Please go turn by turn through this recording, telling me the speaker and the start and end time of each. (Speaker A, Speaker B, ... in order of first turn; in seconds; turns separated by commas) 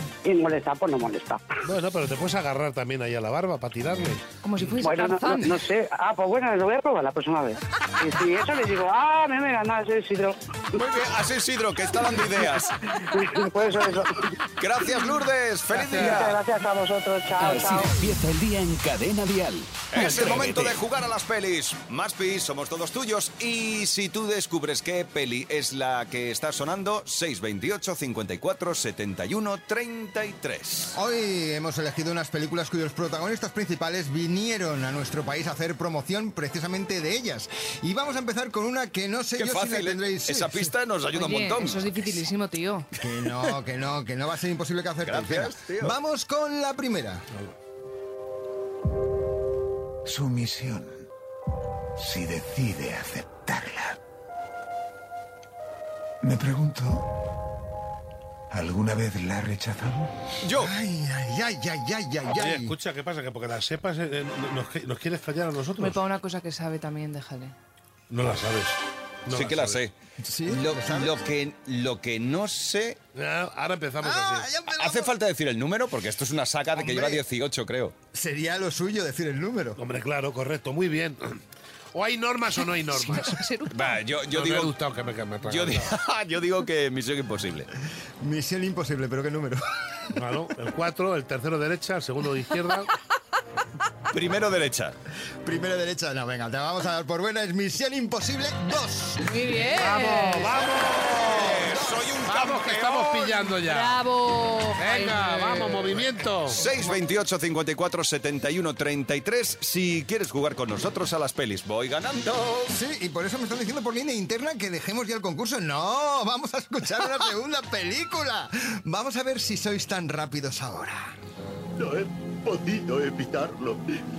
Speaker A: 0.2-1.4, Speaker B: 1.6-4.2, Speaker C: 4.4-5.6, Speaker A: 4.8-10.4, Speaker D: 10.8-12.8, Speaker A: 12.9-14.2, Speaker D: 14.6-16.4, Speaker B: 15.7-16.2, Speaker A: 15.8-17.9, Speaker E: 17.4-20.8, Speaker D: 19.9-30.9, Speaker F: 30.9-40.7, Speaker D: 39.4-42.3, Speaker C: 41.1-42.9, Speaker F: 43.0-47.2, Speaker D: 45.0-46.0, Speaker G: 50.0-51.0, Speaker G: 52.0-54.0, Speaker G: 56.2-57.1, Speaker G: 58.5-60.2, Speaker D: 60.4-60.7, Speaker F: 60.5-62.7, Speaker B: 62.3-66.0, Speaker C: 65.8-67.5, Speaker B: 68.1-69.8, Speaker D: 69.3-69.9, Speaker F: 70.2-71.2, Speaker D: 70.5-73.0, Speaker B: 73.1-74.5, Speaker F: 74.0-75.1, Speaker D: 74.8-77.9, Speaker F: 76.7-77.2, Speaker F: 78.1-79.8, Speaker B: 79.8-81.4, Speaker B: 81.9-83.4, Speaker C: 82.9-84.0, Speaker D: 83.7-84.7, Speaker B: 84.3-85.9, Speaker D: 85.5-87.7, Speaker F: 88.2-90.1, Speaker B: 90.1-92.9, Speaker D: 94.1-95.0, Speaker F: 95.4-102.1, Speaker C: 99.2-100.5, Speaker B: 99.6-101.0, Speaker D: 100.7-103.5, Speaker B: 102.2-104.0, Speaker C: 103.5-106.0, Speaker B: 104.8-106.6, Speaker D: 106.5-112.8, Speaker F: 106.6-106.9, Speaker F: 112.7-121.1, Speaker F: 122.7-123.7